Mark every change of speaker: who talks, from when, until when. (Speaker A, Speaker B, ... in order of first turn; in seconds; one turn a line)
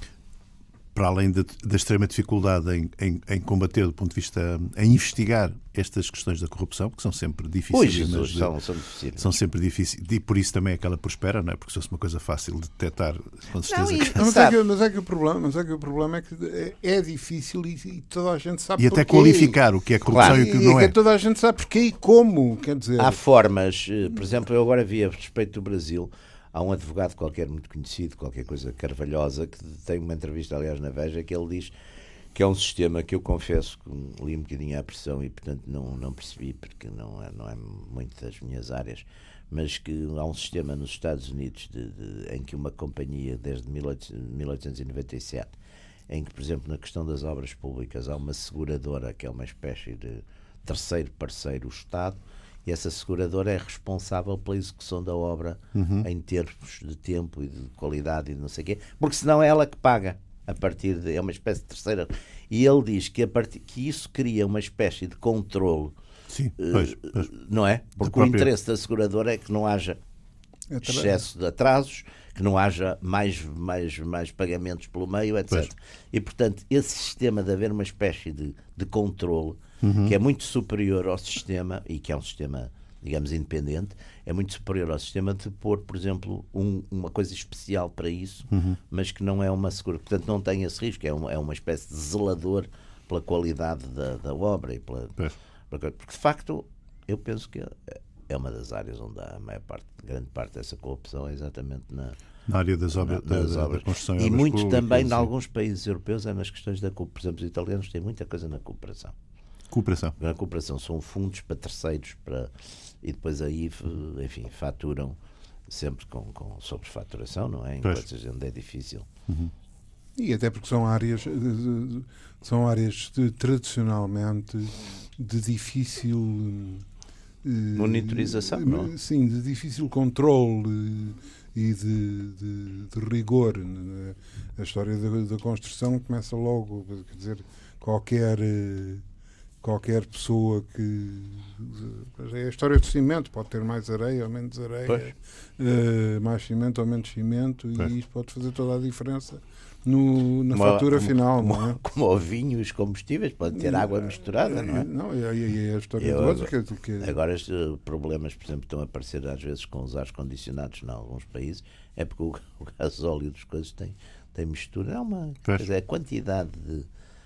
Speaker A: 0.9-8.5
Speaker B: 7.7-9.3
Speaker A: 9.2-14.2
Speaker B: 13.6-14.5
Speaker C: 14.1-19.6
Speaker A: 18.8-20.9
Speaker B: 20.1-20.4
Speaker C: 20.2-23.2
Speaker B: 23.0-31.7
Speaker B: 32.3-45.5
Speaker B: 46.1-65.9
Speaker A: 55.7-56.1
Speaker A: 66.3-67.3
Speaker B: 66.6-70.0
Speaker A: 68.0-68.5
Speaker C: 70.7-71.2
Speaker B: 70.8-95.2
Speaker A: 79.8-80.1
Speaker A: 88.5-88.8
Speaker B: 95.7-102.2
Speaker A: 102.5-105.3
Speaker B: 102.9-109.1
Speaker A: 109.7-110.1
Speaker B: 110.2-119.1
Speaker C: 120.2-126.8
Speaker C: 127.4-139.0
Speaker B: 127.7-128.9
Speaker C: 139.6-151.8
Speaker B: 150.5-154.9
Speaker C: 153.5-157.2
Speaker B: 156.0-166.9